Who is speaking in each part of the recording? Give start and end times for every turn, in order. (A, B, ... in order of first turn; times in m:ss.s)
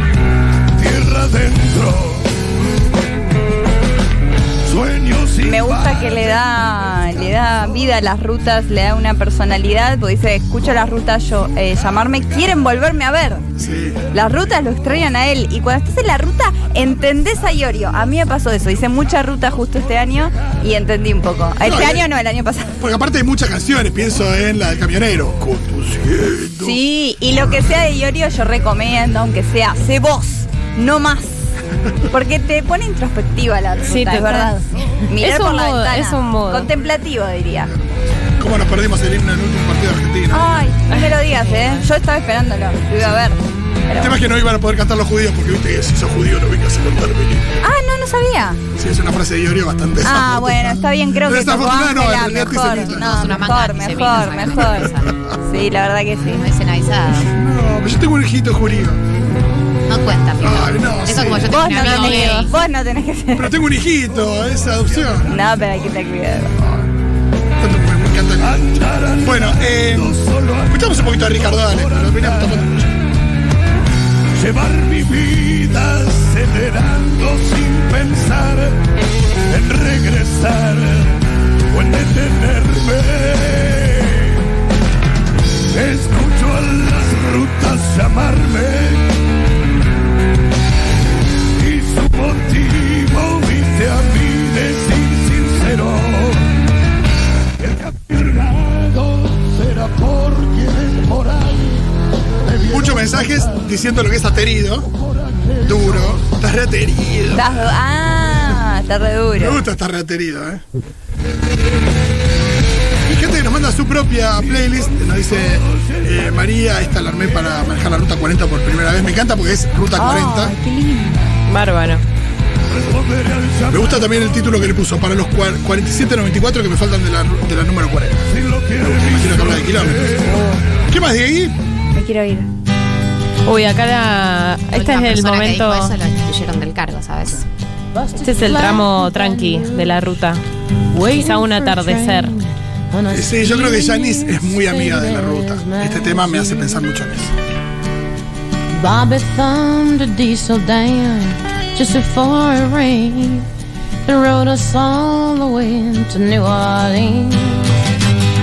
0:00.8-0:02.3 A
0:04.6-0:06.3 A
0:05.4-0:13.5 B
0:13.6-0:14.0 C
0:14.1-0:22.8 B
0:21.6-0:22.0 C
0:22.8-0:26.8 C
0:26.6-0:31.5 B
0:32.1-0:37.7 B
0:33.8-0:36.7 D
0:37.7-0:40.5 C
0:40.3-0:44.2 B
0:40.9-0:41.8 D
0:44.0-0:47.5 C
0:47.6-0:48.6 B
0:48.8-0:53.0 C
0:50.0-0:56.4 B
0:52.8-0:55.1 E
0:55.1-0:55.3 C
0:56.2-0:57.3 E
0:57.1-0:59.0 C
0:59.9-1:02.5 E
1:00.4-1:01.6 C
1:01.5-1:03.6 B
1:03.3-1:05.4 C
1:05.2-1:06.6 B
1:06.6-1:06.9 C
1:07.6-1:12.9 C
1:08.5-1:12.6 A
1:14.3-1:18.8 A
1:19.5-1:24.4 A
1:25.7-1:29.2 A
1:31.5-1:36.5 A
1:37.6-1:41.8 A
1:42.4-1:43.1 A
1:42.7-1:44.9 C
1:45.6-1:47.7 C
1:47.3-1:49.6 B
1:49.4-1:50.6 C
1:53.0-2:00.5 C
2:00.0-2:01.4 B
2:01.4-2:02.0 D
2:02.7-2:03.8 A
2:03.7-2:08.3 C
2:08.4-2:10.4 A
2:09.0-2:10.2 C
2:10.8-2:11.5 C
2:11.9-2:12.5 B
2:13.4-2:15.9 D
2:14.7-2:17.4 E
2:17.9-2:19.9 F
2:18.2-2:20.4 D
2:20.9-2:26.8 F
2:21.1-2:22.3 D
2:23.1-2:27.3 C
2:28.7-2:33.5 F
2:34.0-2:37.7 F